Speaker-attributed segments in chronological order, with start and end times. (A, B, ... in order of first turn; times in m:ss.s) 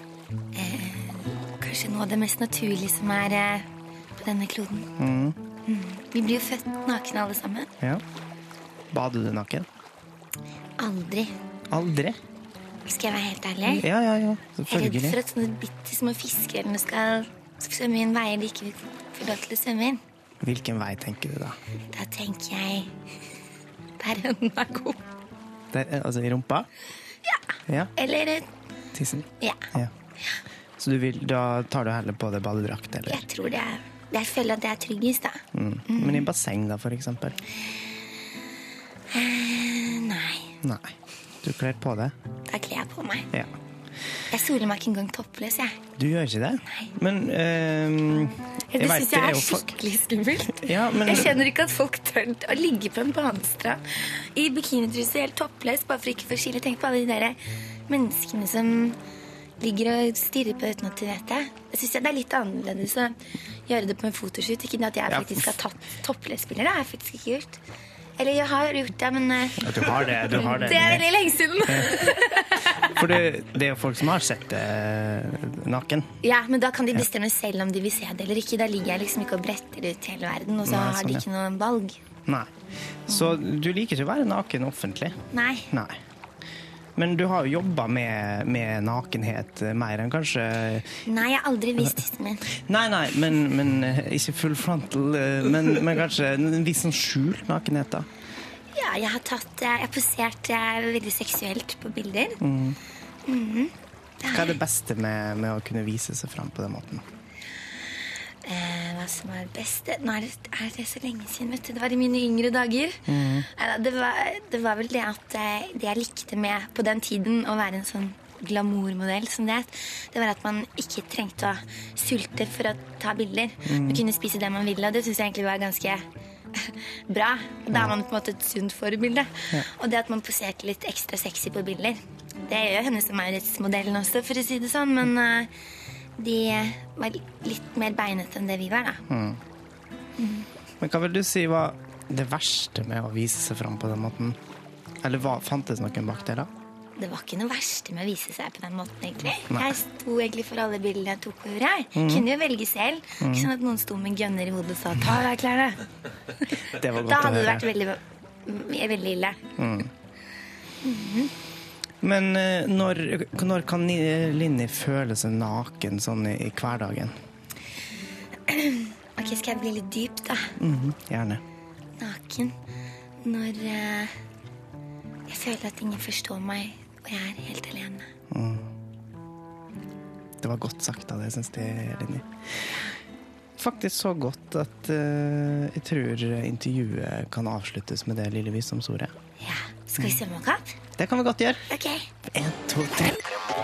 0:00.5-0:03.7 A
0:04.2-0:04.9 A
0:05.0-0:05.4 B
0:05.6-0:07.7 A
0:08.9-0:09.6 B
0:10.8-0:11.3 A
0:11.7-0:12.2 B
0:12.8-0:13.9 A
0:13.7-0:15.2 B
0:14.7-0:20.0 A
0:20.4-0:21.6 B
0:21.9-0:22.9 A
0:24.0-0:25.0 A
0:25.7-0:26.7 B
0:28.0-0:28.5 A
0:28.9-0:29.9 B
0:30.8-0:33.2 B
0:33.1-0:36.3 A
0:35.5-0:37.4 B
0:39.1-0:40.5 A
0:40.6-0:42.1 B
0:42.5-0:43.3 A
0:44.3-0:45.8 A
0:46.0-0:49.7 B
0:48.7-0:59.0 A
0:50.6-0:51.4 B
0:59.6-1:03.2 A
1:03.7-1:07.6 A
1:05.1-1:05.5 B
1:08.2-1:12.9 A
1:09.6-1:11.0 B
1:11.6-1:12.1 B
1:12.9-1:16.1 B
1:16.2-1:22.0 A
1:20.6-1:21.2 B
1:23.1-1:25.2 B
1:23.1-1:23.4 A
1:25.3-1:25.7 A
1:25.7-1:26.0 B
1:27.0-1:31.0 B
1:31.0-1:32.4 A
1:32.5-1:38.1 B
1:38.7-1:42.4 A
1:42.4-1:42.8 B
1:43.2-1:44.6 A
1:44.3-1:47.0 B
1:48.4-2:06.0 A
1:53.1-1:53.5 B
2:03.7-2:04.0 B
2:06.6-2:15.5 A
2:16.2-2:19.0 A
2:19.1-2:19.4 B
2:20.2-2:20.4 A
2:20.8-2:24.4 B
2:25.0-2:26.5 B
2:27.0-2:35.8 A
2:32.0-2:32.2 B
2:33.2-2:33.5 B
2:36.7-2:37.7 B
2:36.9-2:39.4 A
2:39.6-2:39.9 B
2:40.8-2:41.3 A
2:42.0-2:47.1 B
2:48.5-2:50.5 A
2:50.6-2:51.4 B
2:52.0-2:52.5 A
2:53.2-2:54.1 A
2:55.3-2:58.1 A
2:58.3-2:58.7 B
3:00.4-3:02.2 B
3:03.6-3:09.1 B
3:09.4-3:10.7 A
3:11.0-3:11.6 B
3:11.7-3:12.1 A
3:12.3-3:13.2 B